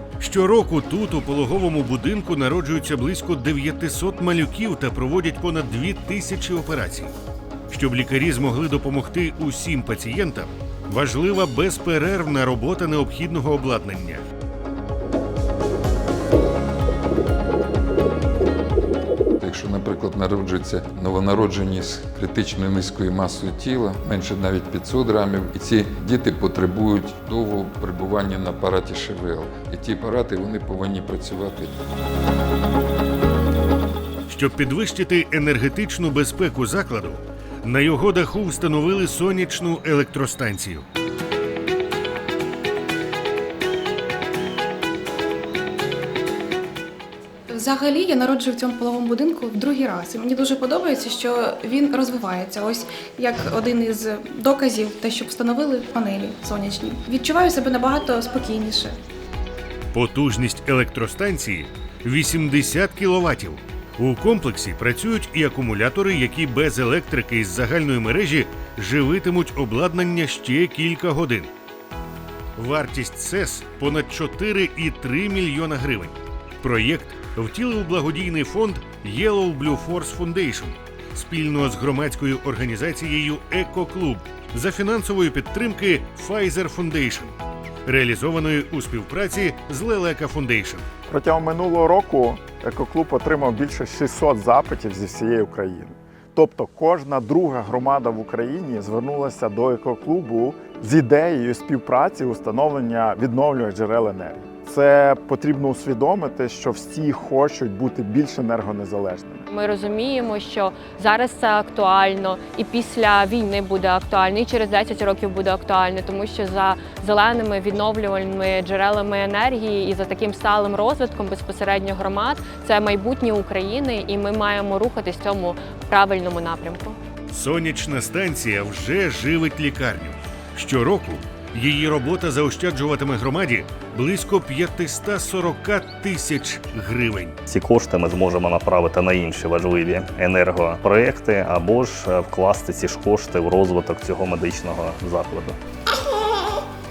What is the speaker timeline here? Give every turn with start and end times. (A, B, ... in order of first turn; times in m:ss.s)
0:00.2-0:07.1 A
0:07.7-0:14.2 A
0:19.4-0:31.8 B
0:34.3-0:40.9 A
0:47.5-0:59.0 C
0:59.9-1:11.5 A
1:12.6-1:30.9 A
1:31.1-1:49.5 D
1:49.5-2:07.0 E
2:07.3-2:17.4 A
2:17.5-2:25.6 F